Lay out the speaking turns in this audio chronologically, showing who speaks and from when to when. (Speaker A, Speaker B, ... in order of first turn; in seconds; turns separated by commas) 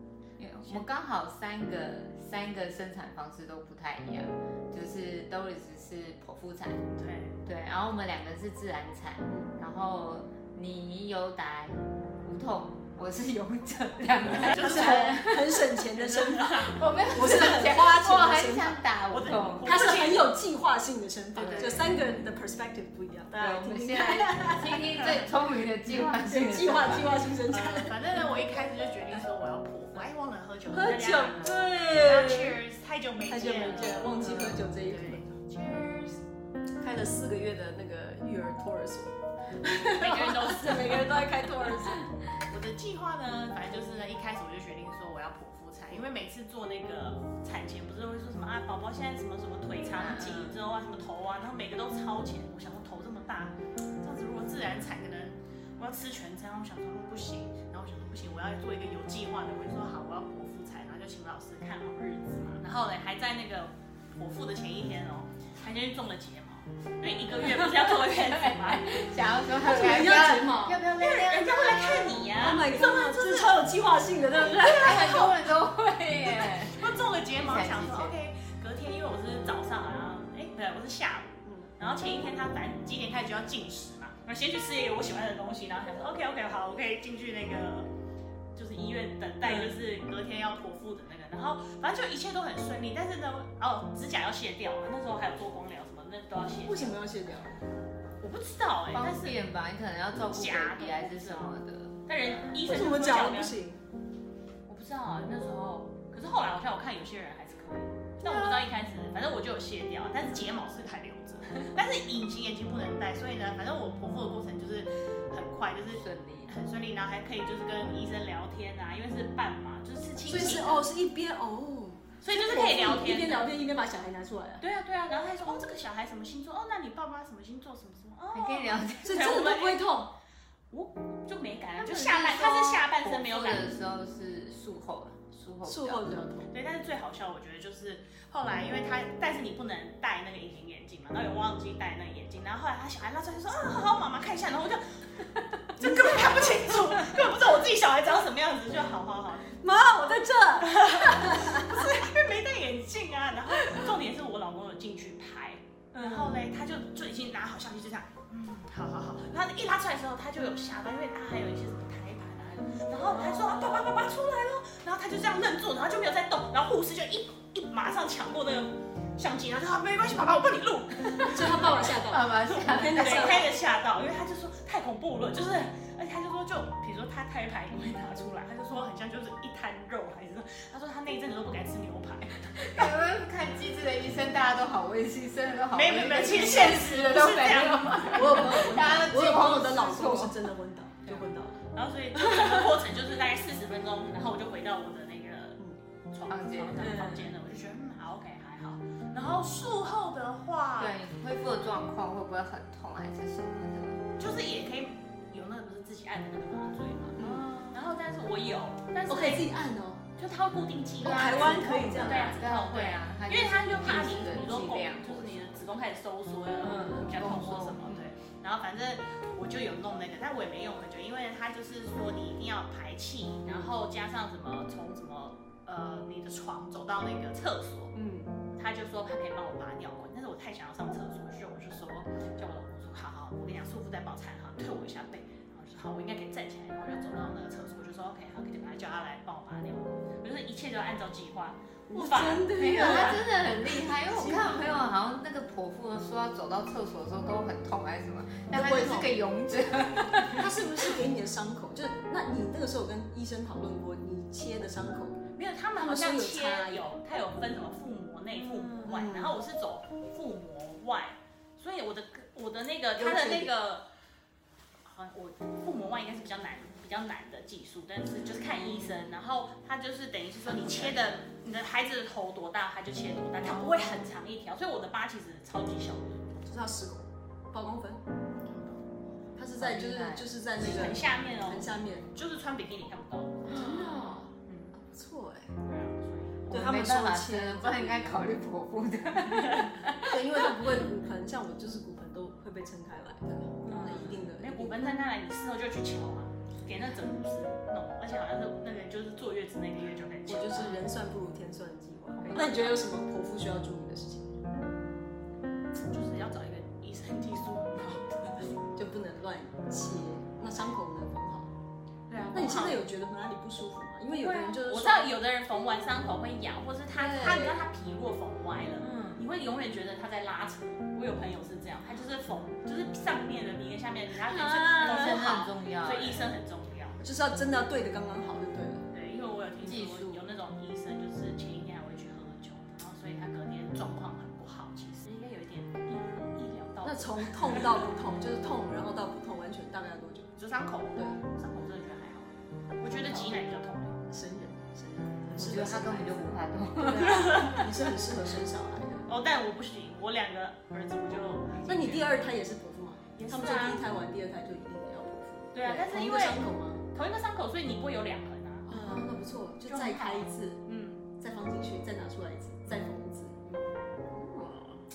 Speaker A: 0.4-6.9, Speaker B: 6.9-7.4, Speaker A: 7.5-15.7, Speaker B: 14.3-15.2, Speaker C: 14.5-18.9, Speaker B: 16.0-16.8, Speaker A: 16.7-19.7, Speaker B: 19.1-20.3, Speaker C: 19.6-24.8, Speaker A: 21.4-22.0, Speaker A: 23.3-27.1, Speaker B: 25.0-25.3, Speaker C: 26.1-28.2, Speaker B: 27.5-36.2, Speaker C: 30.7-32.6, Speaker C: 33.2-35.3, Speaker C: 36.8-42.1, Speaker B: 39.6-41.3, Speaker B: 42.5-68.9, Speaker A: 49.8-50.6, Speaker A: 67.4-72.1, Speaker C: 69.6-75.5, Speaker B: 70.9-73.5, Speaker A: 74.4-78.2, Speaker B: 76.3-87.9, Speaker C: 81.4-81.7, Speaker B: 88.5-97.0, Speaker C: 96.6-97.6, Speaker B: 98.2-99.4, Speaker A: 98.9-102.0, Speaker B: 100.3-101.5, Speaker B: 102.1-103.6, Speaker C: 102.6-103.8, Speaker B: 104.7-120.9, Speaker C: 108.2-108.7, Speaker A: 115.9-116.5, Speaker C: 120.2-124.7, Speaker B: 122.2-123.5, Speaker B: 124.6-129.9, Speaker A: 128.3-129.2, Speaker C: 129.0-130.1, Speaker B: 130.7-133.7, Speaker A: 131.8-136.3, Speaker C: 135.7-136.5, Speaker B: 136.5-149.6, Speaker C: 145.8-146.8, Speaker C: 149.6-151.8, Speaker B: 150.6-182.8, Speaker C: 156.0-156.3, Speaker A: 171.2-173.5, Speaker C: 171.2-173.5, Speaker A: 182.6-190.4, Speaker B: 185.7-188.6, Speaker C: 188.1-191.6, Speaker B: 191.1-201.0, Speaker A: 196.3-197.0, Speaker C: 196.8-197.3, Speaker A: 200.8-204.0, Speaker B: 204.2-209.5, Speaker C: 207.2-207.7, Speaker A: 207.2-207.6, Speaker C: 209.1-210.0, Speaker B: 210.2-227.9, Speaker A: 211.0-215.8, Speaker C: 211.0-212.4, Speaker C: 216.6-217.1, Speaker A: 216.7-218.0, Speaker C: 223.4-223.7, Speaker C: 227.9-228.3, Speaker B: 228.6-243.2, Speaker C: 241.9-244.6, Speaker A: 242.6-250.9, Speaker C: 248.5-249.2, Speaker C: 250.3-255.2, Speaker B: 255.4-263.9, Speaker C: 255.8-256.9, Speaker C: 258.8-259.4, Speaker C: 263.0-263.5, Speaker B: 264.8-276.4, Speaker A: 270.6-271.0, Speaker C: 276.4-278.0, Speaker B: 278.5-278.8, Speaker C: 279.4-282.1, Speaker A: 279.6-280.3, Speaker B: 280.6-284.7, Speaker C: 283.5-285.6, Speaker A: 283.6-284.2, Speaker B: 285.6-286.5, Speaker A: 286.5-290.2, Speaker C: 286.5-288.3, Speaker C: 290.1-294.9, Speaker B: 293.7-300.9, Speaker C: 300.3-304.4, Speaker B: 302.2-302.8, Speaker B: 305.9-308.6, Speaker C: 308.7-311.5, Speaker B: 312.1-312.8, Speaker C: 312.3-315.1, Speaker B: 314.1-327.0, Speaker C: 316.9-317.6, Speaker C: 324.3-325.1, Speaker A: 324.8-326.3, Speaker C: 327.0-328.9, Speaker B: 328.9-337.6, Speaker A: 329.6-330.2, Speaker C: 336.8-340.3, Speaker B: 340.4-344.0, Speaker C: 342.9-343.4, Speaker C: 344.1-349.1, Speaker A: 345.4-347.5, Speaker B: 347.0-347.9, Speaker B: 349.1-352.2, Speaker C: 351.7-356.8, Speaker B: 353.2-353.8, Speaker B: 355.5-359.1, Speaker A: 355.6-355.9, Speaker C: 358.7-360.6, Speaker B: 359.7-361.0, Speaker C: 361.2-363.6, Speaker B: 362.7-362.9, Speaker C: 364.1-364.8